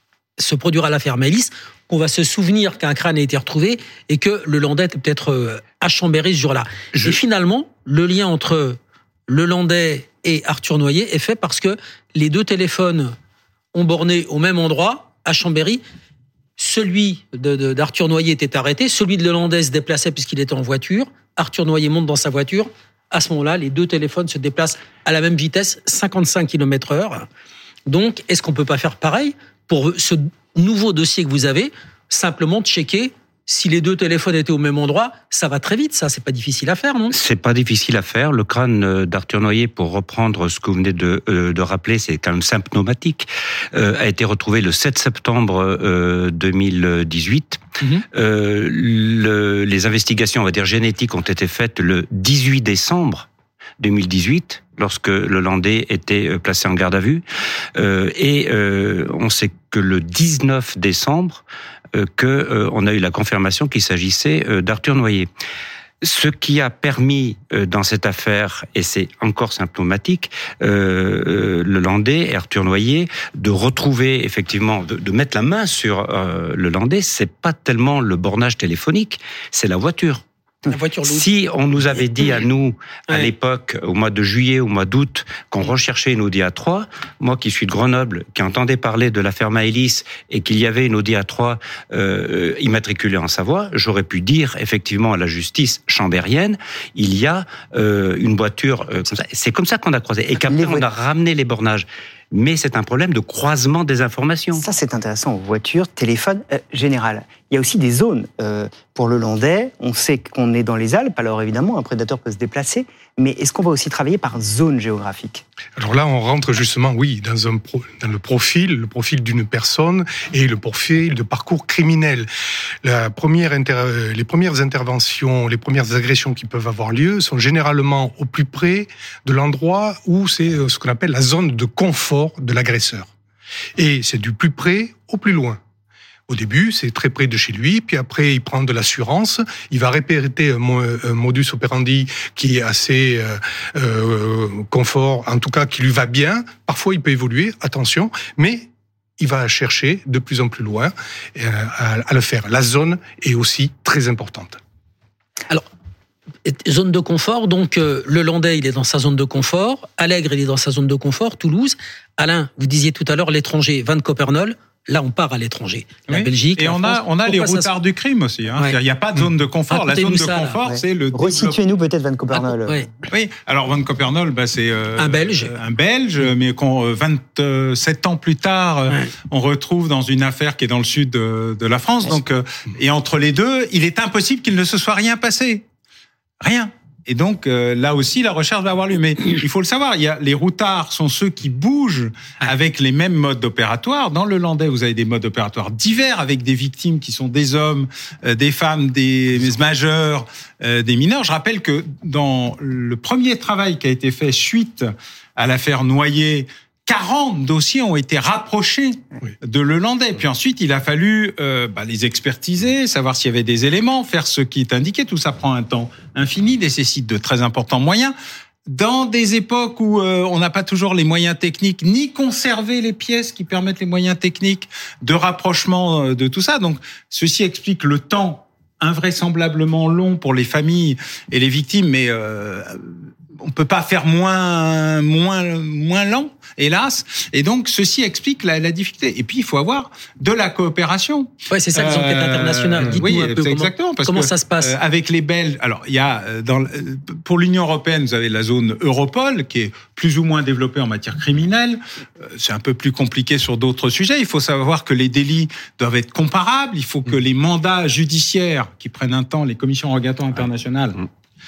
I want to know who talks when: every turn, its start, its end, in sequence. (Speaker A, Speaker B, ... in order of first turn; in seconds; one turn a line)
Speaker A: 0.4-13.2
Speaker A: 13.7-15.8
Speaker A: 16.6-27.3
Speaker A: 27.9-37.1
Speaker B: 37.1-53.3
Speaker B: 53.8-57.2
Speaker B: 57.7-61.4
Speaker B: 61.9-65.3
Speaker B: 66.0-80.2
Speaker A: 80.7-81.3
Speaker B: 81.0-104.6
Speaker A: 81.9-82.3
Speaker C: 100.3-100.9
Speaker C: 104.5-115.4
Speaker D: 115.8-122.3
Speaker D: 122.8-133.1
Speaker D: 133.8-135.6
Speaker D: 136.3-148.7
Speaker D: 149.2-154.6
Speaker A: 156.4-167.7
Speaker E: 166.1-171.6
Speaker A: 169.7-170.6
Speaker C: 170.6-172.9
Speaker A: 172.3-172.9
Speaker E: 173.1-185.6
Speaker A: 175.0-175.5
Speaker E: 186.4-218.1
Speaker E: 218.7-261.0
Speaker A: 241.5-244.8